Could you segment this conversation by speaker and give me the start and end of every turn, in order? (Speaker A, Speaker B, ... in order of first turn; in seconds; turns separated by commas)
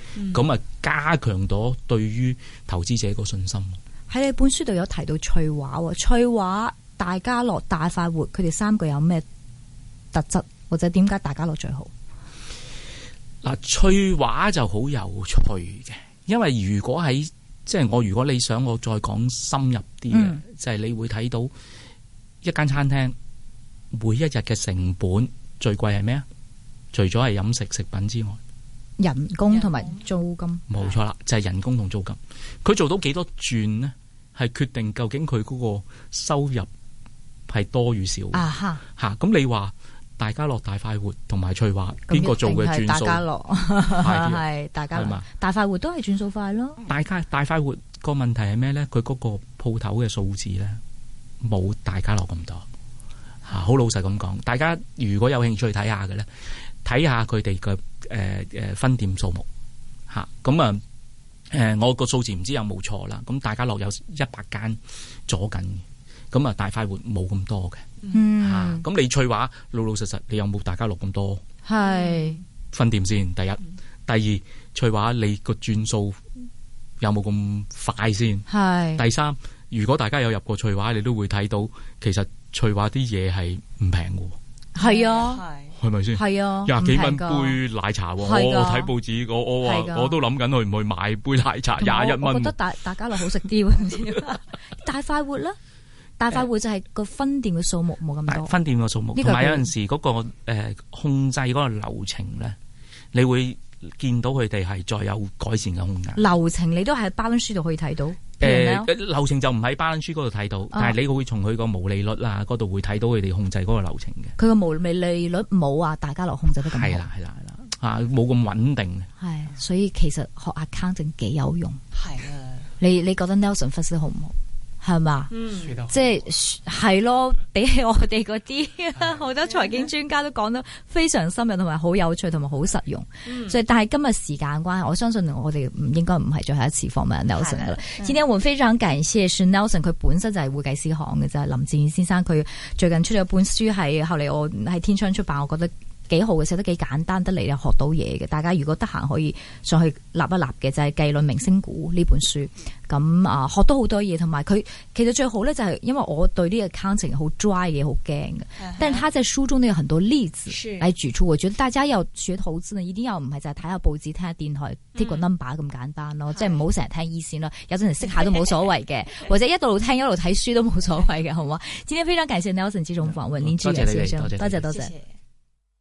Speaker A: 0.1-0.5, Speaker B: 0.3-3.8, Speaker C: 4.1-9.2, Speaker C: 10.1-11.9, Speaker B: 13.4-21.5, Speaker C: 20.1-20.4, Speaker B: 22.4-23.1, Speaker B: 23.9-26.2, Speaker B: 26.9-28.4, Speaker C: 29.0-30.6, Speaker B: 30.7-36.7, Speaker B: 37.5-43.2, Speaker C: 38.3-38.8, Speaker C: 42.1-46.8, Speaker B: 43.9-45.2, Speaker B: 46.8-50.8, Speaker B: 51.4-52.6, Speaker B: 53.5-56.3, Speaker B: 56.8-59.5, Speaker B: 60.1-60.8, Speaker B: 61.5-67.8, Speaker C: 68.1-68.8, Speaker B: 68.4-71.4, Speaker C: 71.7-72.4, Speaker A: 71.8-72.3, Speaker B: 72.7-76.2, Speaker B: 77.0-84.4, Speaker C: 78.5-79.0, Speaker C: 84.7-85.4, Speaker B: 85.8-92.5, Speaker C: 86.1-87.6, Speaker C: 88.2-88.9, Speaker C: 89.6-90.2, Speaker C: 91.8-95.6, Speaker C: 96.2-98.5, Speaker B: 98.3-102.6, Speaker C: 99.1-99.7, Speaker B: 103.1-106.3, Speaker C: 106.2-108.9, Speaker B: 108.4-114.3, Speaker C: 114.4-117.0, Speaker B: 116.6-119.1, Speaker C: 119.2-121.8, Speaker C: 122.8-125.3, Speaker A: 125.3-125.8, Speaker C: 125.9-174.9, Speaker A: 133.2-133.6, Speaker A: 160.6-160.8, Speaker A: 164.9-165.2, Speaker B: 173.4-174.7